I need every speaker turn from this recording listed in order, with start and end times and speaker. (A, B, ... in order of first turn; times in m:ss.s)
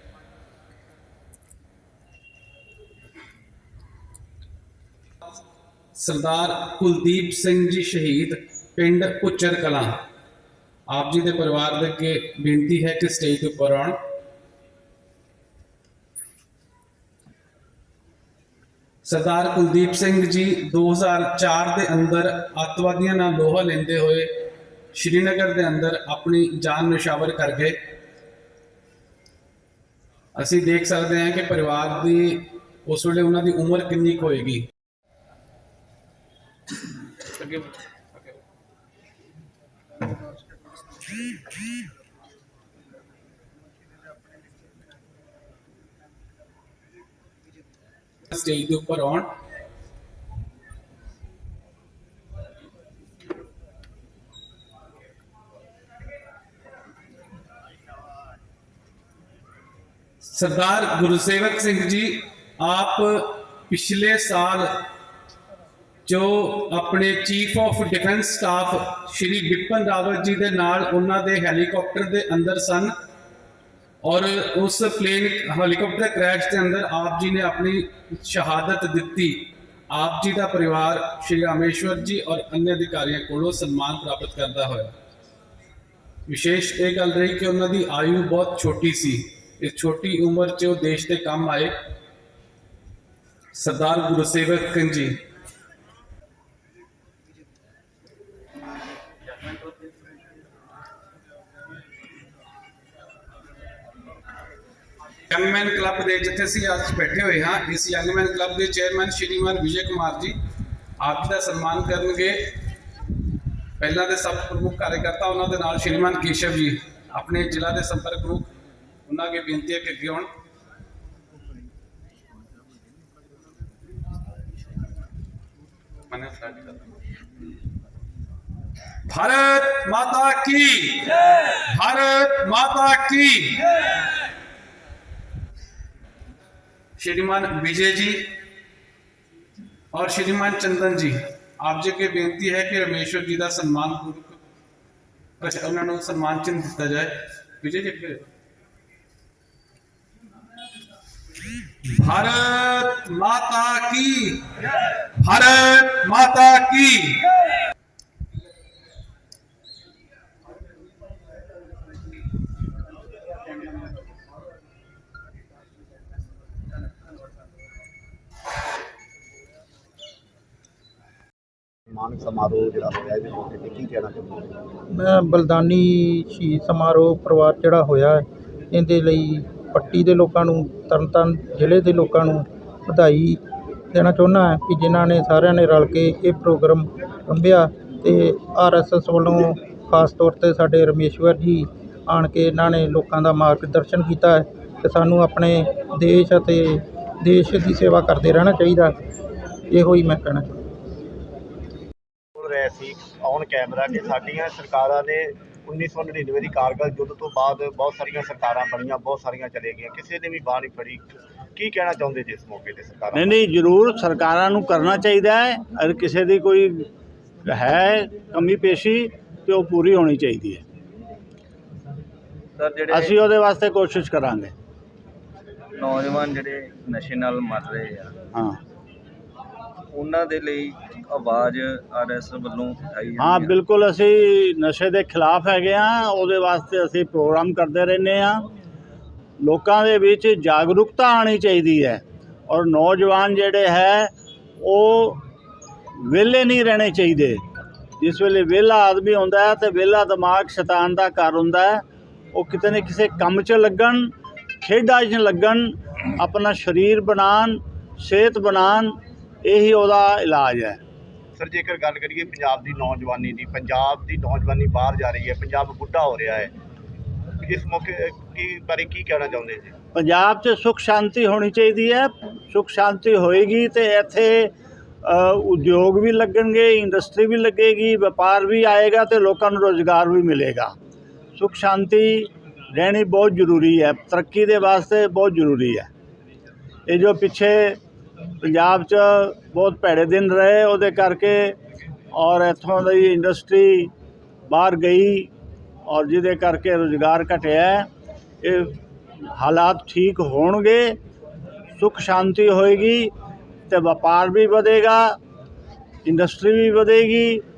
0:06.0-0:10.0 A
0:10.9-0:14.0 A
0:19.0-0:24.3 A
0:24.9-0:27.8 A
0:30.3-0:34.6 A
0:37.4-0:38.4 A
0:48.3-0:49.3 A
1:00.2-1:04.8 A
1:06.0-1:12.9 A
1:14.0-1:24.9 A
1:26.3-1:31.8 A
1:33.5-1:35.2 A
1:45.3-1:50.4 A
1:51.0-1:52.5 A
1:53.8-1:58.5 A
1:59.0-2:00.3 A
2:06.1-2:06.9 A
2:09.1-2:11.1 A
2:11.7-2:13.6 A
2:17.0-2:18.3 A
2:19.9-2:24.4 A
2:25.4-2:28.3 A
2:31.8-2:34.5 A
2:35.2-2:37.2 A
2:51.9-2:54.5 B
2:54.9-3:03.4 C
3:03.9-3:18.9 C
3:19.7-3:20.6 C
3:22.4-3:33.4 B
3:33.1-3:36.9 D
3:37.4-3:40.6 D
3:42.6-3:43.2 E
3:42.9-3:44.5 D
3:45.8-3:48.1 E
3:48.3-3:48.6 D
3:49.9-3:53.6 E
3:53.2-3:58.5 D
3:59.4-4:05.2 D
4:06.0-4:07.4 D
4:08.0-4:20.8 D
4:21.4-4:26.5 B
4:27.4-4:29.7 B
4:29.9-4:40.7 D
4:41.4-4:45.9 D
4:46.9-4:47.8 D
4:48.4-4:51.6 D
4:52.1-4:53.9 D
4:54.5-4:55.3 D
4:55.8-4:57.9 D
4:58.4-5:01.0 D
5:01.7-5:03.1 D
5:03.7-5:05.2 D
5:06.0-5:07.4 D